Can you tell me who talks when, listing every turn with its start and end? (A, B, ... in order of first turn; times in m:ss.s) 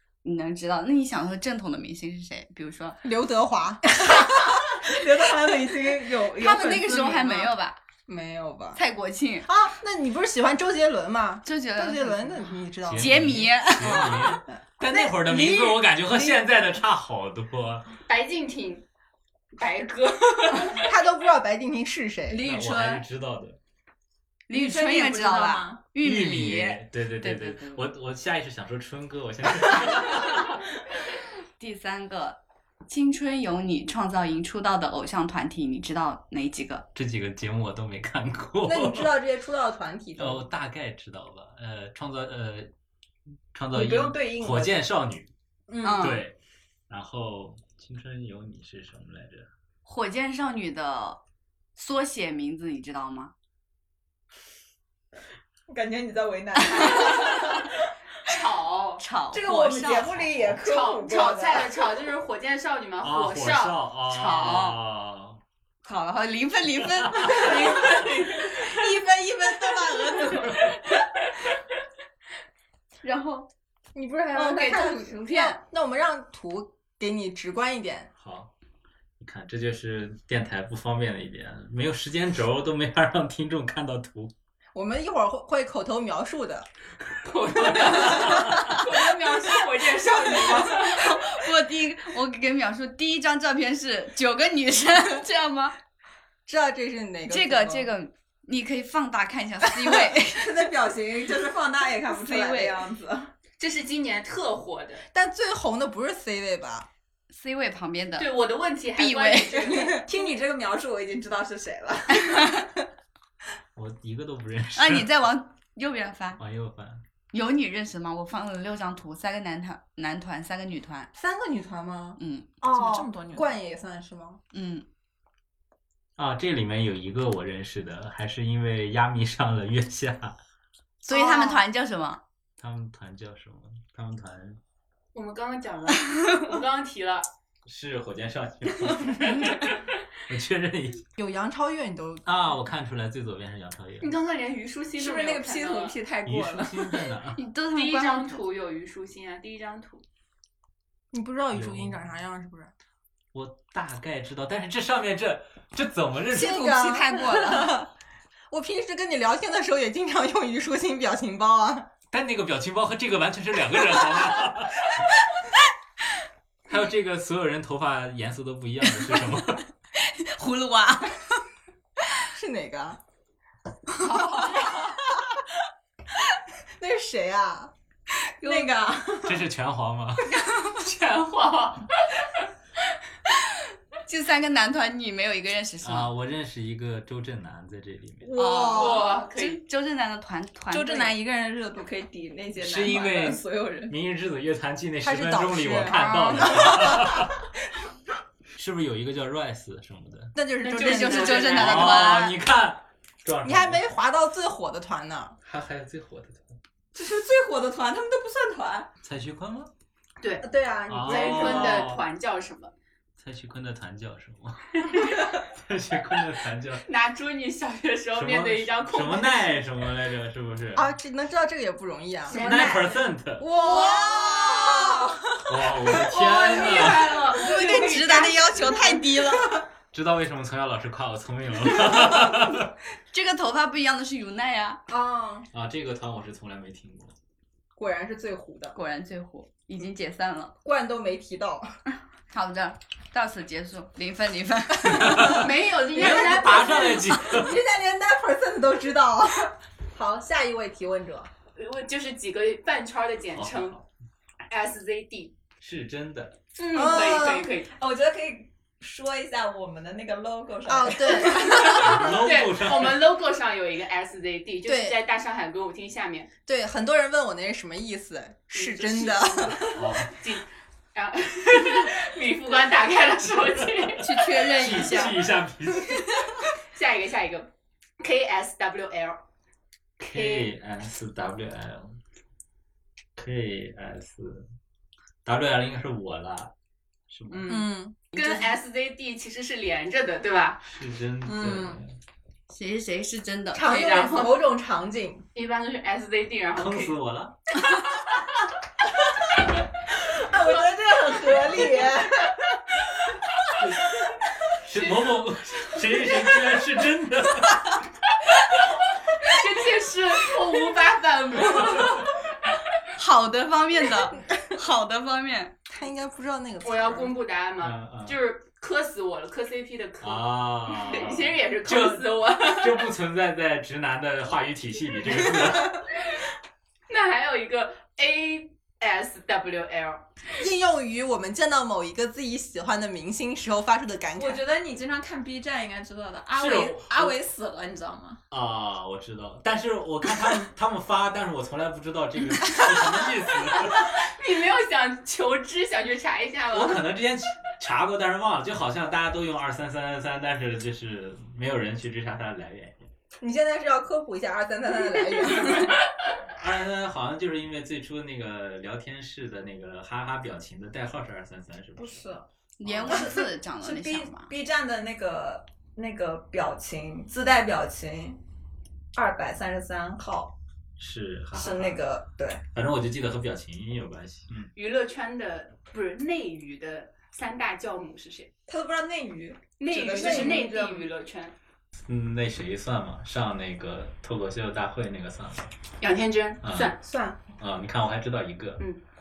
0:00.2-0:03.0 A
0:03.0-0:04.6 B
0:04.1-0:07.3 C
0:06.4-0:07.8 A
0:06.9-0:07.5 B
0:08.1-0:08.8 B
0:08.8-0:09.5 A
0:09.4-0:15.8 B
0:11.4-0:14.3 A
0:12.9-0:17.9 D
0:18.1-0:18.8 E
0:19.6-0:20.9 E
0:20.8-0:22.4 B
0:22.4-0:23.6 D
0:22.4-0:23.0 A
0:24.5-0:27.8 A
0:24.5-0:25.7 B
0:24.6-0:25.8 C
0:26.0-0:30.4 D
0:31.6-0:36.8 A
0:37.0-0:39.1 D
0:38.6-0:40.5 B
0:40.2-0:42.7 D
0:43.5-0:45.3 D
0:43.7-0:44.8 C
0:45.7-0:46.1 B
0:45.8-0:46.2 A
0:46.0-0:46.3 D
0:46.9-0:49.5 D
0:49.8-0:51.2 A
0:51.8-0:53.3 A
0:55.7-0:57.7 C
0:58.2-0:59.0 E
0:59.0-1:00.3 A
0:59.3-1:01.8 C
1:00.6-1:03.9 E
1:03.0-1:05.4 D
1:04.1-1:04.8 A
1:05.8-1:10.7 A
1:07.3-1:08.7 E
1:13.0-1:13.5 A
1:13.9-1:18.1 B
1:14.3-1:15.6 A
1:18.2-1:18.5 D
1:19.2-1:24.3 D
1:24.7-1:26.7 B
1:27.2-1:31.0 E
1:27.8-1:28.7 D
1:30.0-1:30.7 C
1:30.8-1:35.8 A
1:36.5-1:37.9 B
1:37.3-1:40.5 A
1:40.2-1:43.3 C
1:42.1-1:42.8 A
1:43.6-1:45.1 E
1:45.1-1:46.9 B
1:47.3-1:48.3 A
1:48.2-1:50.0 E
1:48.9-1:49.8 A
1:49.7-1:52.6 C
1:52.2-1:52.6 A
1:53.8-1:55.1 D
1:54.8-1:56.4 A
1:56.4-1:57.0 D
1:57.3-2:01.1 A
2:01.2-2:04.4 B
2:02.2-2:02.5 A
2:02.7-2:03.5 C
2:04.5-2:04.8 A
2:06.2-2:10.3 D
2:11.0-2:11.6 B
2:11.1-2:12.2 A
2:12.6-2:14.6 D
2:15.1-2:17.3 E
2:17.7-2:19.7 D
2:19.4-2:19.8 E
2:20.3-2:21.0 D
2:21.2-2:22.6 B
2:22.3-2:24.1 D
2:24.0-2:26.0 E
2:25.0-2:27.1 C
2:26.2-2:27.4 D
2:27.4-2:28.4 A
2:27.7-2:30.0 E
2:31.1-2:32.7 B
2:31.5-2:32.1 D
2:33.3-2:36.8 D
2:36.3-2:37.9 B
2:36.4-2:37.8 C
2:38.5-2:41.9 B
2:42.1-2:45.1 D
2:46.7-2:49.6 D
2:50.0-2:51.2 A
2:52.3-2:53.0 B
2:54.0-2:54.8 A
2:54.0-2:55.0 B
2:56.8-2:57.7 B
2:58.4-2:59.2 C
2:58.4-2:59.1 B
2:59.2-3:00.3 D
3:00.6-3:02.5 E
3:04.1-3:06.1 A
3:05.8-3:08.3 D
3:08.2-3:09.2 B
3:08.3-3:11.1 A
3:08.7-3:09.6 E
3:10.7-3:14.0 C
3:10.8-3:11.4 B
3:12.6-3:17.3 D
3:15.0-3:17.3 B
3:18.6-3:20.3 D
3:20.3-3:21.9 B
3:20.7-3:22.2 E
3:20.8-3:22.3 A
3:21.6-3:23.8 D
3:23.4-3:25.4 B
3:25.4-3:26.6 D
3:26.9-3:28.9 C
3:29.0-3:29.7 D
3:30.2-3:30.5 E
3:30.4-3:31.9 B
3:30.9-3:32.0 D
3:31.0-3:32.7 E
3:33.2-3:36.8 D
3:34.8-3:35.1 E
3:36.8-3:39.6 E
3:38.1-3:40.9 D
3:40.8-3:42.7 B
3:42.3-3:43.0 E
3:42.3-3:43.4 D
3:43.4-3:45.5 B
3:43.6-3:44.8 A
3:45.5-3:47.2 D
3:45.9-3:49.0 E
3:47.3-3:49.5 A
3:49.9-3:52.7 D
3:53.1-3:54.8 A
3:54.9-3:55.5 B
3:55.5-3:57.1 D
3:57.8-3:58.8 B
3:58.8-4:00.5 A
4:00.6-4:01.8 B
4:02.3-4:05.4 A
4:05.0-4:07.6 D
4:05.2-4:07.1 E
4:06.0-4:11.3 B
4:11.5-4:13.8 E
4:13.3-4:13.8 D
4:14.5-4:15.4 E
4:15.6-4:16.4 D
4:16.5-4:17.7 E
4:16.7-4:17.5 B
4:17.0-4:21.9 C
4:20.6-4:22.0 B
4:21.6-4:23.0 D
4:21.6-4:26.3 E
4:24.6-4:25.0 B
4:26.5-4:29.8 B
4:28.5-4:35.0 E
4:29.8-4:30.1 D
4:34.0-4:35.2 A
4:34.6-4:36.1 D
4:36.7-4:39.2 E
4:40.0-4:40.5 E
4:40.0-4:42.0 D
4:43.2-4:44.5 D
4:45.2-4:46.5 D
4:47.1-4:47.6 D
4:47.3-4:47.6 C
4:47.5-4:48.0 B
4:48.1-4:50.6 E
4:48.1-4:48.4 A
4:50.6-4:52.0 D
4:51.2-4:51.8 B
4:52.5-4:54.2 A
4:53.5-4:55.2 B
4:53.6-4:54.4 E
4:55.4-4:57.0 E
4:56.5-4:57.4 D
5:00.1-5:02.0 C
5:00.4-5:02.1 B
5:03.6-5:03.9 D
5:04.6-5:07.8 D
5:04.7-5:05.8 E
5:09.2-5:12.1 E
5:11.4-5:12.1 D
5:13.0-5:15.5 A
5:15.7-5:17.1 B
5:16.6-5:22.9 E
5:17.6-5:18.2 D
5:20.0-5:25.8 D
5:26.9-5:30.1 E
5:30.4-5:34.4 B
5:34.2-5:38.2 C
5:36.4-5:37.2 D
5:38.3-5:44.0 D
5:43.6-5:46.9 E
5:46.5-5:52.9 D
5:53.2-5:55.8 B
5:56.3-6:03.1 D
6:01.8-6:02.2 C
6:02.6-6:04.3 A
6:02.8-6:08.2 C
6:08.9-6:10.3 C
6:10.8-6:11.9 D
6:11.3-6:12.4 C
6:12.5-6:14.5 D
6:14.5-6:18.3 E
6:18.5-6:20.9 C
6:19.6-6:21.4 E
6:19.9-6:20.4 B
6:21.9-6:25.5 D
6:25.8-6:26.8 E
6:26.4-6:26.7 D
6:26.8-6:27.2 C
6:27.4-6:28.6 D